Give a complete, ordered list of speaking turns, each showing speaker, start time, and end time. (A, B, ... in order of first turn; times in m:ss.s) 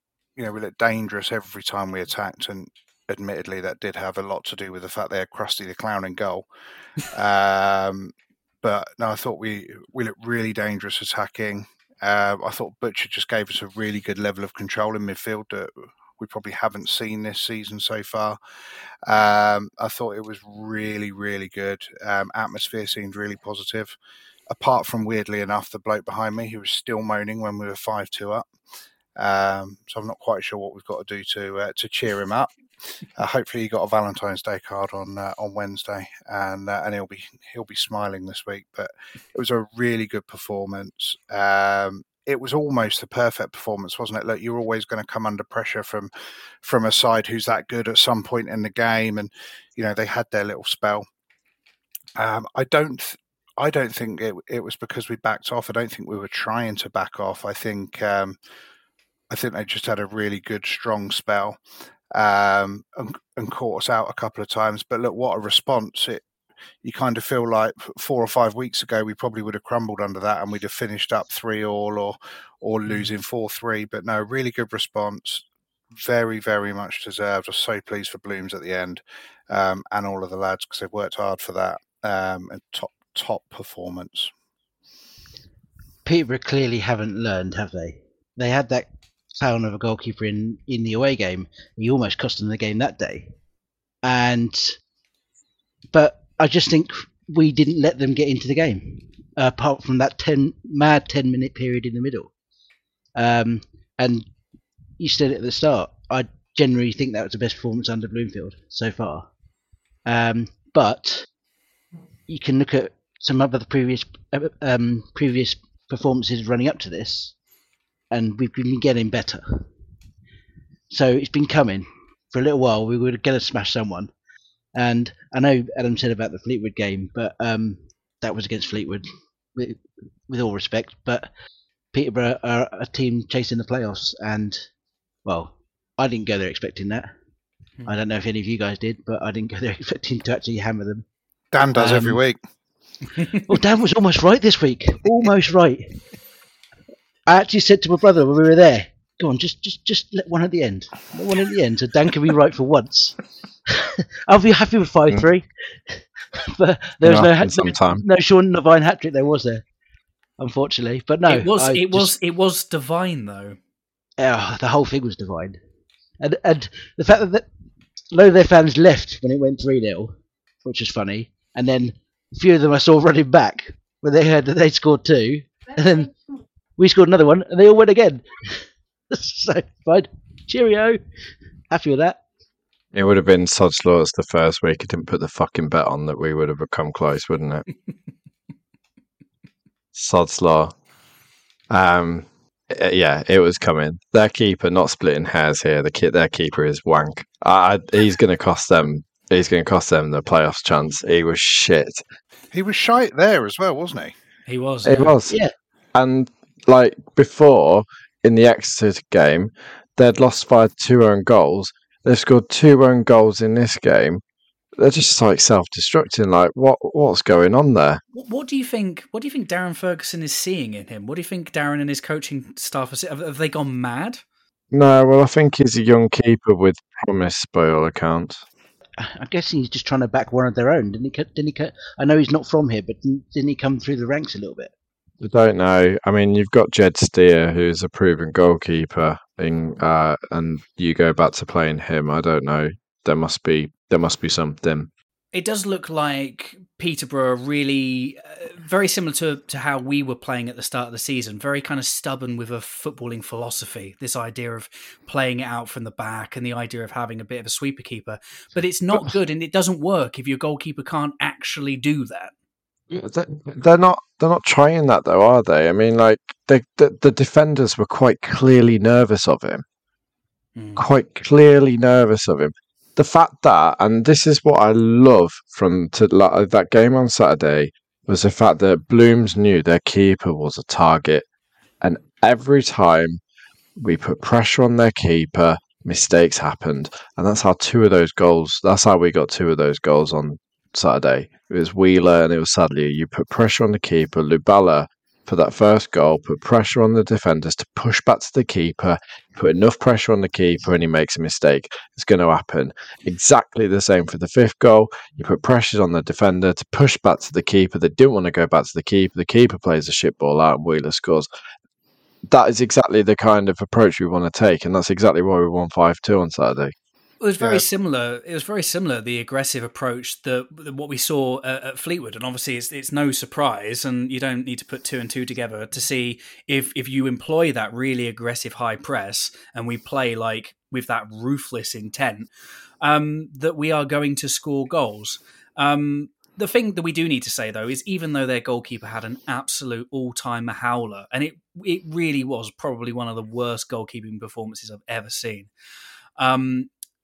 0:00.4-0:06.5 A
0:07.1-0:18.4 A
0:19.1-0:24.0 A
0:24.5-0:28.5 A
0:29.2-0:32.5 A
0:33.2-0:46.1 A
0:46.6-0:51.0 A
0:52.2-0:58.4 A
0:59.3-1:01.6 A
1:02.1-1:06.2 A
1:06.8-1:24.3 A
1:26.1-1:33.3 B
1:34.0-1:34.8 B
1:35.9-1:42.3 B
1:43.2-1:44.3 B
1:45.0-1:49.3 B
1:50.1-1:51.3 B
1:52.3-1:57.3 B
1:58.1-1:59.7 B
2:00.9-2:04.1 B
2:04.8-2:11.3 B
2:11.9-2:14.7 B
2:15.2-2:17.1 B
2:17.9-2:21.0 B
2:21.5-2:22.4 A
2:21.8-2:22.2 B
2:23.3-2:25.9 B
2:27.3-2:33.2 B
2:33.7-2:39.6 B
2:37.0-2:38.0 C
2:40.4-2:42.1 B
2:41.3-2:43.6 D
2:44.2-2:45.6 B
2:46.2-2:47.5 B
2:48.1-2:50.1 B
2:50.6-2:56.2 B
2:56.8-2:58.2 B
2:59.1-3:01.0 B
3:01.7-3:02.2 B
3:02.9-3:07.7 C
3:09.9-3:10.7 C
3:11.7-3:22.0 C
3:22.5-3:24.2 A
3:24.5-3:25.1 D
3:24.9-3:25.4 C
3:25.3-3:25.5 B
3:26.0-3:34.2 C
3:34.8-3:38.0 C
3:38.1-3:44.2 D
3:44.7-3:48.4 C
3:49.0-3:54.7 B
3:55.2-4:04.9 C
4:05.3-4:22.3 D
4:22.9-4:29.6 C
4:30.6-4:30.8 D
4:30.8-4:41.2 C
4:41.8-4:43.2 C
4:43.8-5:11.3 C
5:12.3-5:16.7 C
5:17.2-5:32.3 D
5:32.8-5:45.5 D
5:46.2-5:46.7 D